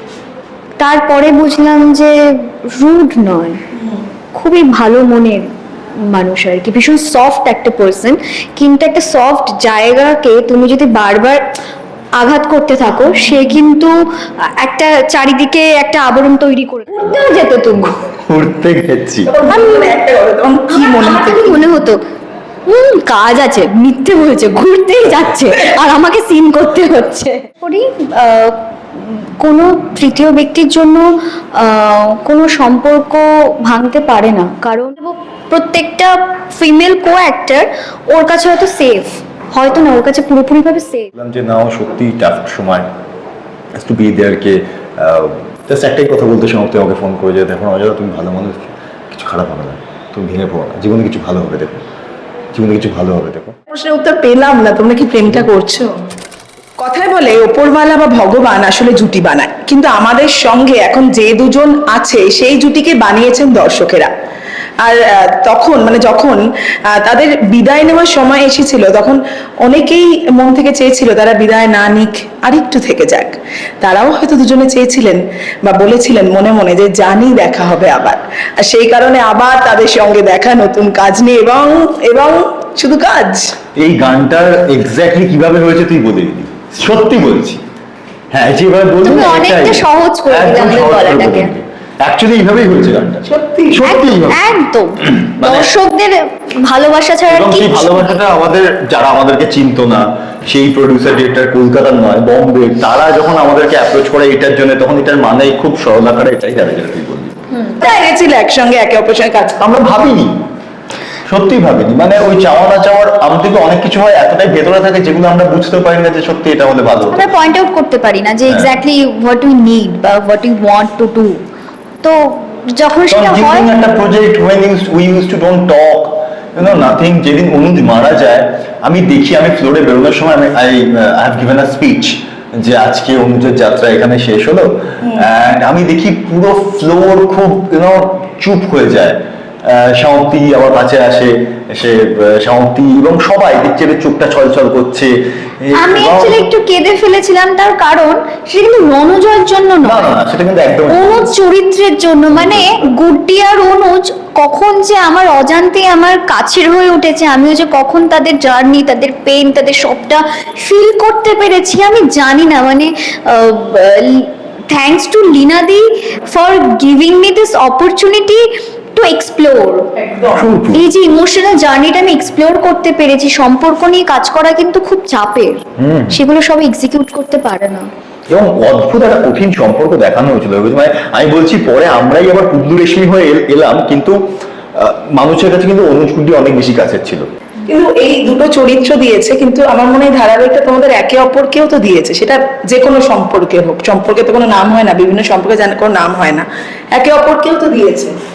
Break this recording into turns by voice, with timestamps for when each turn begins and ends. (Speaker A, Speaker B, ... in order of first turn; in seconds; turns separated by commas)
Speaker A: 0.8-3.6, Speaker A: 4.3-5.5, Speaker A: 6.1-11.4, Speaker A: 12.2-13.9, Speaker A: 14.6-17.9, Speaker B: 18.3-19.3, Speaker C: 19.2-21.6, Speaker A: 19.5-19.9, Speaker A: 20.7-22.0, Speaker A: 22.7-41.1, Speaker B: 41.1-42.9, Speaker B: 43.8-51.8, Speaker B: 52.5-53.5, Speaker C: 53.7-55.9, Speaker C: 56.8-64.1, Speaker C: 64.8-83.5, Speaker B: 83.8-87.6, Speaker B: 88.3-95.7, Speaker A: 89.0-91.5, Speaker C: 93.2-93.9, Speaker A: 93.8-98.2, Speaker B: 97.3-107.3, Speaker A: 107.5-107.9, Speaker C: 107.8-109.6, Speaker B: 109.6-110.4, Speaker B: 111.3-117.3, Speaker A: 117.1-121.4, Speaker B: 118.5-118.7, Speaker A: 122.0-123.7, Speaker B: 123.1-146.4, Speaker A: 145.7-150.2, Speaker B: 149.8-151.3, Speaker A: 150.9-169.9, Speaker B: 152.3-152.9, Speaker C: 169.9-170.5, Speaker B: 170.3-170.8, Speaker A: 170.7-177.8, Speaker B: 175.8-176.2, Speaker B: 178.3-184.2, Speaker B: 184.8-187.3, Speaker C: 187.7-198.1